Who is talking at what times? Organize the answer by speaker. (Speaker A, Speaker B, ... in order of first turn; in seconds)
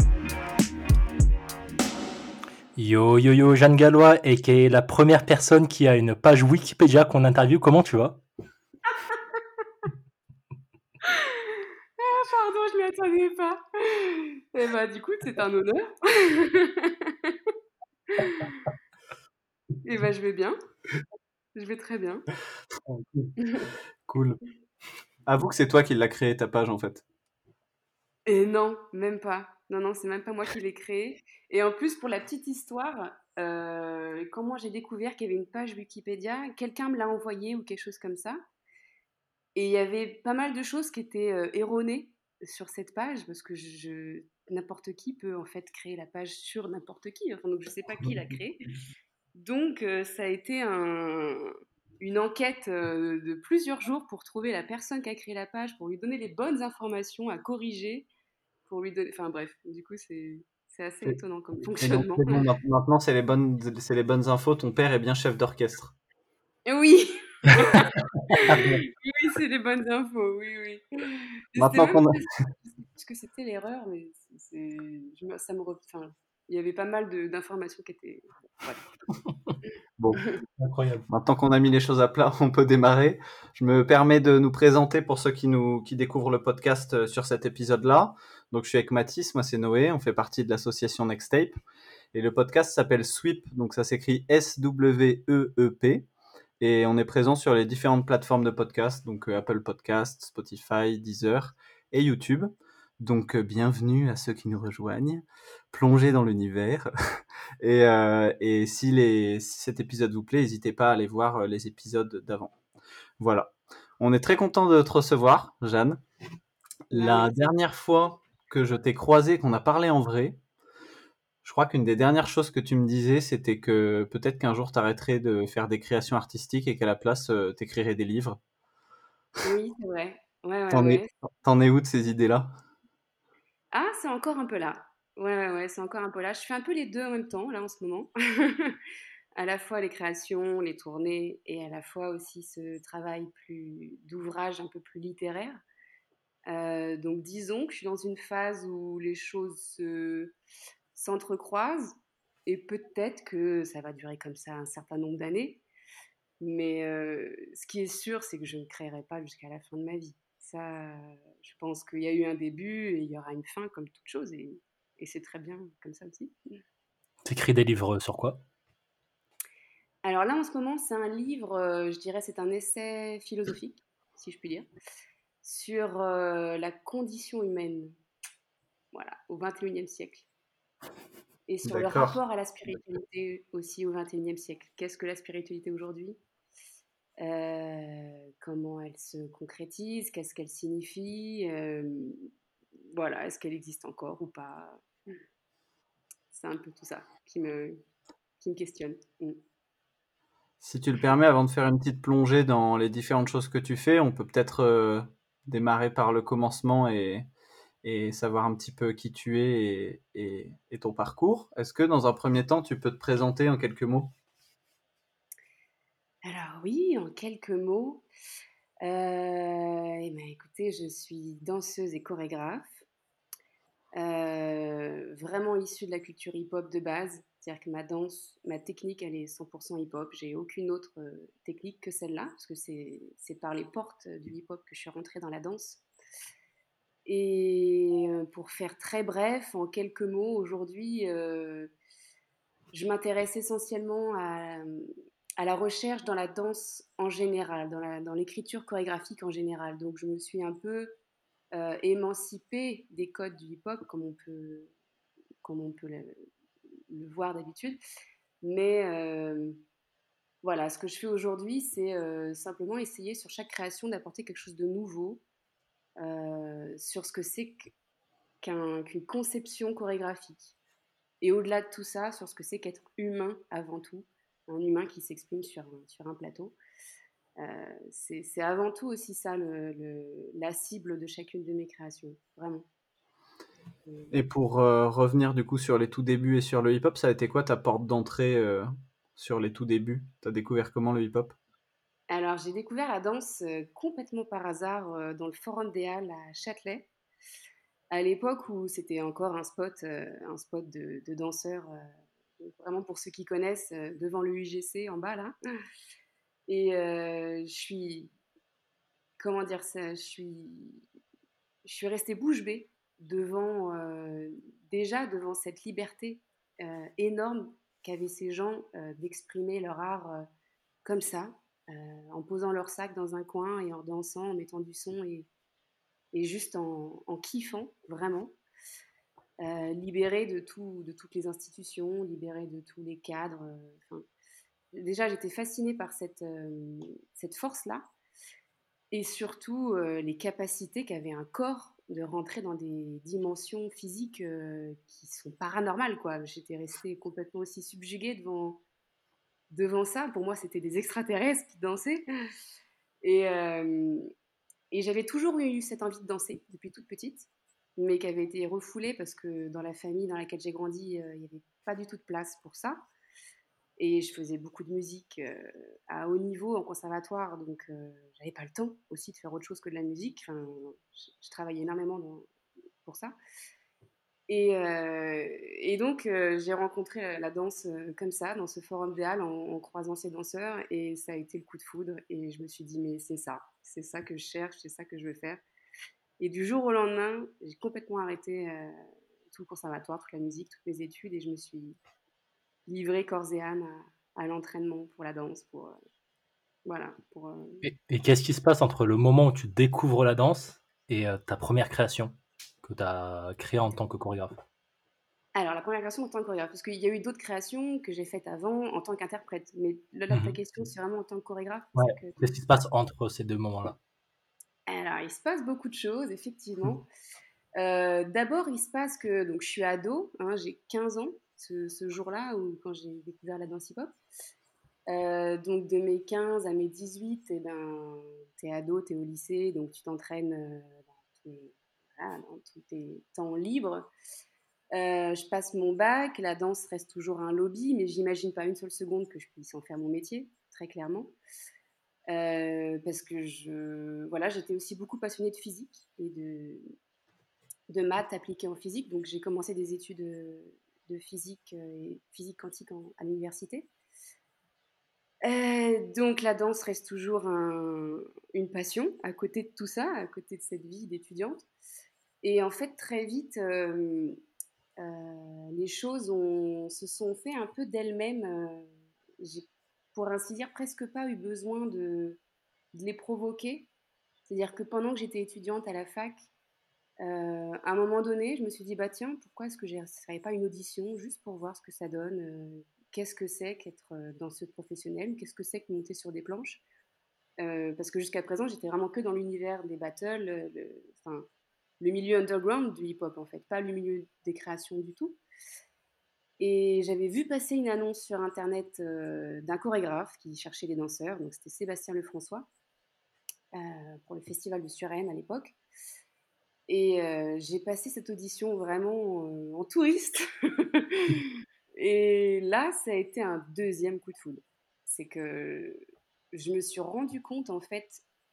Speaker A: 2.8-8.2, 80.6-81.1, 167.2-168.4, 397.6-404.4, 411.8-413.8
Speaker B: 11.0-17.5, 18.1-18.7, 19.8-20.6, 21.5-22.2, 23.4-23.7, 28.2-38.4, 39.5-48.7, 49.3-58.1, 58.7-62.4, 66.7-72.2, 72.9-78.8, 116.9-117.5, 129.4-131.1, 133.7-138.8, 139.3-145.6, 146.5-150.3, 150.9-155.6, 156.4-166.3, 170.0-174.7, 175.4-177.9, 178.9-180.3, 181.5-186.2, 187.2-192.3, 192.9-194.8, 196.3-197.8, 198.4-199.4, 216.2-218.0, 218.8-222.8, 223.9-235.8, 237.1-241.7, 242.7-250.9, 251.5-254.7, 255.4-256.2, 256.9-257.8, 258.4-259.6, 260.4-265.2, 266.0-267.7, 268.4-270.5, 271.2-276.6, 277.4-282.6, 283.9-284.1, 292.1-296.9, 297.9-305.3, 306.5-308.1, 309.2-310.8, 311.6-320.2, 320.8-325.3, 326.1-328.3, 329.4-334.1, 334.7-337.9, 338.9-348.6, 349.5-352.0, 353.0-354.1, 354.7-362.8, 363.8-372.3, 372.8-373.1, 374.3-385.4, 386.2-388.8, 389.3-391.8, 392.7-395.8, 396.6-397.6, 405.3-412.3, 414.7-416.9, 417.6-423.9, 424.9-433.9, 434.7-441.1, 442.1-446.7, 447.7-453.7, 455.2-461.4, 462.2-464.2, 464.8-472.2, 472.7-473.7, 474.3-476.3, 477.0-486.6, 487.4-491.3, 491.8-495.2, 496.4-502.5, 503.5-505.6, 506.7-515.8, 516.3-518.0
Speaker C: 24.1-24.4, 25.2-27.0, 61.8-65.9, 68.5-68.8, 71.5-72.2, 80.0-80.2, 81.1-91.6, 92.1-96.1, 96.6-112.5, 113.2-116.0, 116.9-120.4, 121.4-128.4, 130.7-132.5, 181.6-182.2, 200.6-207.2, 207.8-214.1, 284.1-291.3